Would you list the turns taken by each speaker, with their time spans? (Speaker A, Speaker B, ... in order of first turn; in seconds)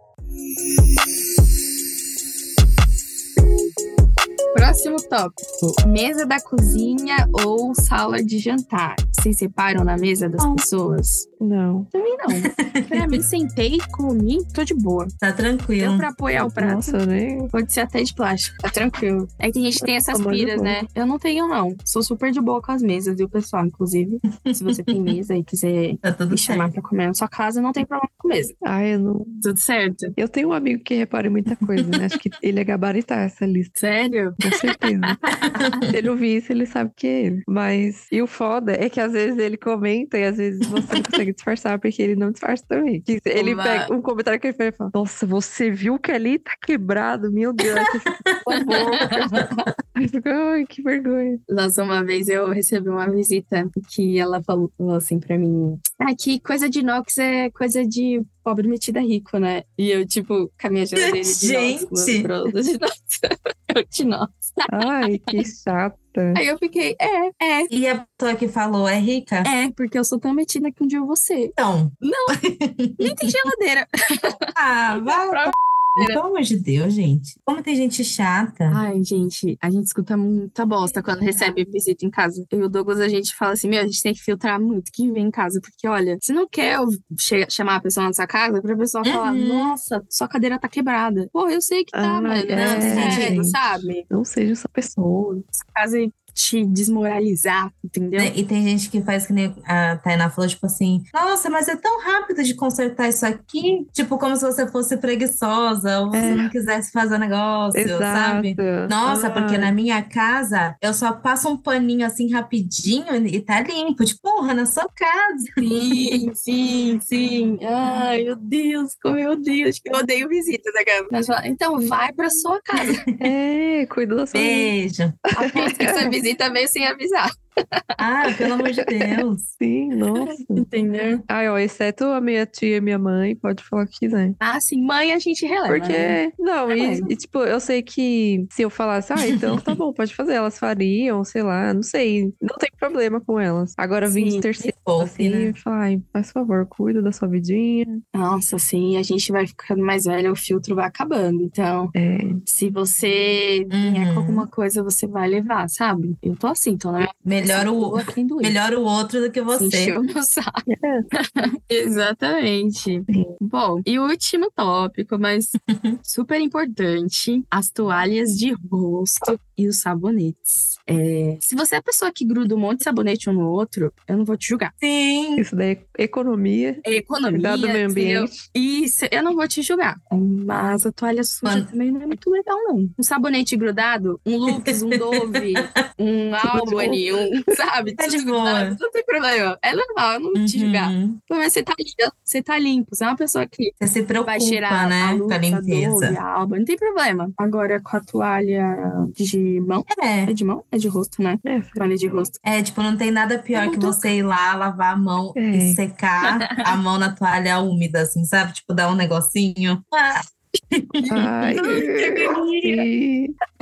Speaker A: 4.5-11.3, 11.9-15.1, 15.8-17.0, 17.5-28.6, 29.4-30.1, 33.8-35.8, 43.4-43.9, 48.5-49.7, 51.5-64.7, 66.3-67.7, 69.4-72.4, 73.0-74.5, 75.1-76.2, 78.7-94.0, 95.5-98.3, 115.6-123.0, 125.3-127.8, 130.2-131.2, 134.4-136.2, 136.7-137.1, 144.1-144.5, 148.1-151.9, 152.4-158.6, 159.5-174.7, 176.8-193.7, 194.2-202.3, 203.5-204.1, 206.2-206.7, 211.0-212.8
Speaker B: 10.4-10.6, 12.4-13.2, 15.2-16.1, 24.4-25.1, 26.0-26.7, 35.3-35.9, 47.8-49.7, 61.0-62.3, 67.7-69.5, 71.6-73.3, 74.5-78.8, 89.0-89.7, 92.5-93.4, 98.2-115.6, 122.8-123.3, 124.3-125.2, 128.0-129.5, 139.2-139.8, 144.6-145.6, 153.7-154.5, 157.2-159.9, 165.7-166.0, 174.8-175.4, 184.5-185.8, 188.0-188.8, 190.3-191.2, 193.8-196.2, 199.9-200.3, 202.4-211.1
Speaker C: 11.4-11.9, 16.4-17.5, 19.8-20.8, 28.6-29.4, 30.2-33.7, 34.4-35.2, 35.9-49.3, 50.0-51.4, 64.7-66.4, 91.9-93.6, 94.1-95.4, 106.1-106.5, 107.7-109.7, 123.2-124.7, 125.3-126.2, 129.6-130.7, 131.3-134.4, 135.7-148.0, 151.9-152.4, 160.7-161.1, 163.1-163.4, 175.4-178.4, 186.5-187.0, 201.4-201.8, 205.3-205.8, 211.1-213.3